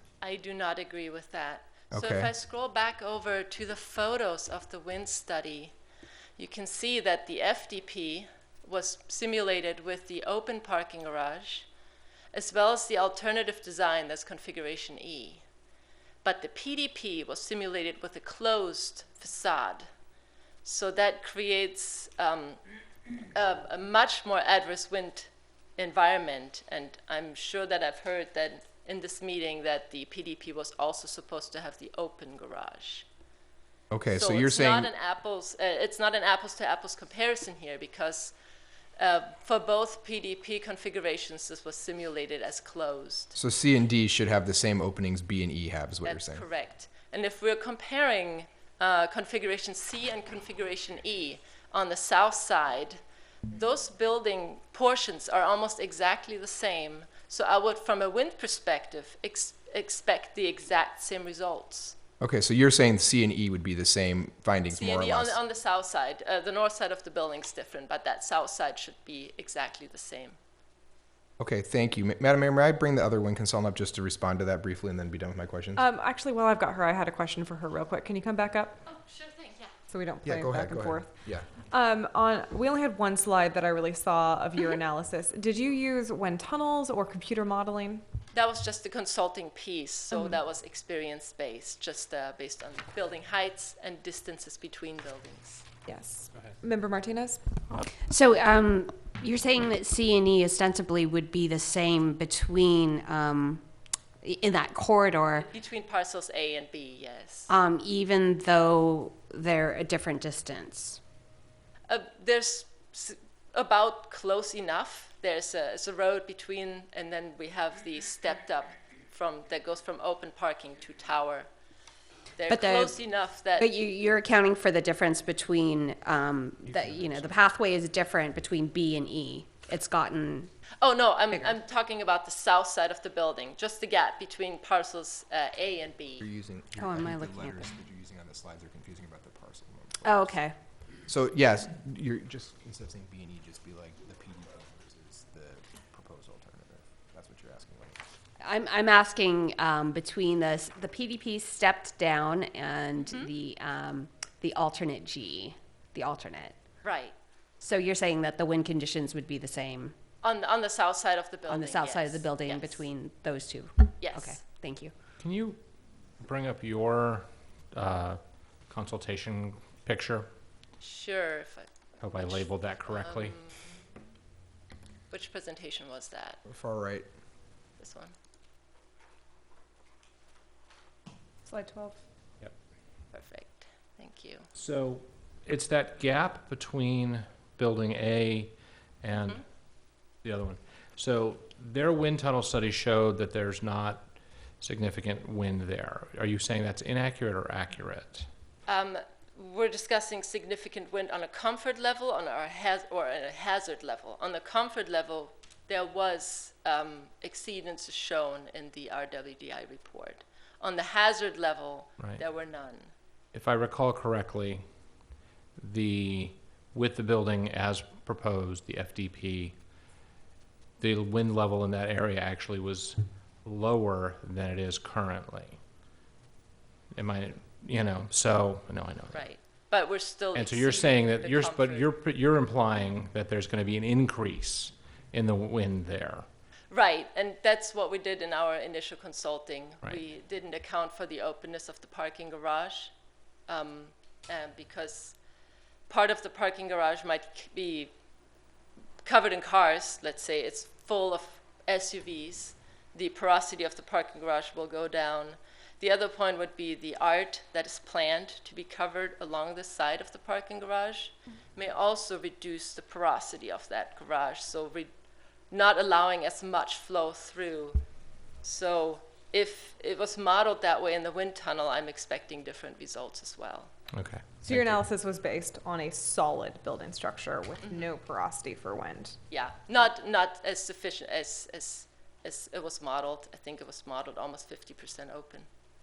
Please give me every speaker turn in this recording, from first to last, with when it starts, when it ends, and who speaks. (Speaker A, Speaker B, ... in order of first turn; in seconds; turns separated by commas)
Speaker A: 0.2-5.7, Speaker B: 1.9-2.3, Speaker A: 6.4-11.7, Speaker A: 12.3-15.4, Speaker A: 16.2-19.9, Speaker A: 20.6-22.6, Speaker A: 23.3-33.0, Speaker B: 33.9-34.9, Speaker A: 34.1-38.3, Speaker A: 39.0-43.4, Speaker B: 43.4-46.4, Speaker A: 46.0-53.0, Speaker A: 53.5-62.0, Speaker B: 62.2-65.4, Speaker A: 64.7-70.4, Speaker B: 71.4-75.8, Speaker C: 75.7-78.8, Speaker A: 78.8-79.7, Speaker C: 79.9-81.1, Speaker B: 80.2-81.5, Speaker C: 81.7-88.0, Speaker A: 88.3-95.7, Speaker C: 95.9-97.4, Speaker D: 98.0-103.6, Speaker D: 104.2-105.5, Speaker A: 105.4-107.5, Speaker D: 107.5-111.0, Speaker A: 111.9-121.5, Speaker A: 122.3-123.7, Speaker D: 122.5-123.0, Speaker D: 123.6-130.5, Speaker A: 130.8-136.2, Speaker B: 136.2-140.4, Speaker D: 136.8-137.7, Speaker D: 140.0-140.5, Speaker B: 141.1-148.0, Speaker D: 148.4-156.6, Speaker A: 153.0-153.3, Speaker A: 156.8-157.1, Speaker D: 157.6-159.9, Speaker A: 160.2-162.8, Speaker D: 161.5-164.9, Speaker A: 164.0-164.4, Speaker E: 165.2-165.6, Speaker E: 166.2-170.3, Speaker A: 170.8-173.8, Speaker E: 172.0-173.3, Speaker A: 175.1-176.4, Speaker B: 176.5-177.1, Speaker A: 177.8-178.1, Speaker C: 181.4-182.0, Speaker A: 183.1-184.5, Speaker E: 184.6-189.4, Speaker A: 189.2-189.4, Speaker E: 190.2-198.3, Speaker A: 198.7-212.9, Speaker E: 213.3-214.7, Speaker E: 215.6-219.6, Speaker E: 220.8-225.6, Speaker E: 226.9-229.2, Speaker A: 229.1-231.9, Speaker E: 230.3-236.2, Speaker A: 236.7-242.9, Speaker A: 243.5-245.2, Speaker A: 245.9-247.9, Speaker A: 249.0-264.9, Speaker A: 265.5-267.8, Speaker A: 268.4-273.7, Speaker E: 273.9-274.8, Speaker C: 274.4-279.2, Speaker A: 277.6-277.9, Speaker A: 279.3-285.5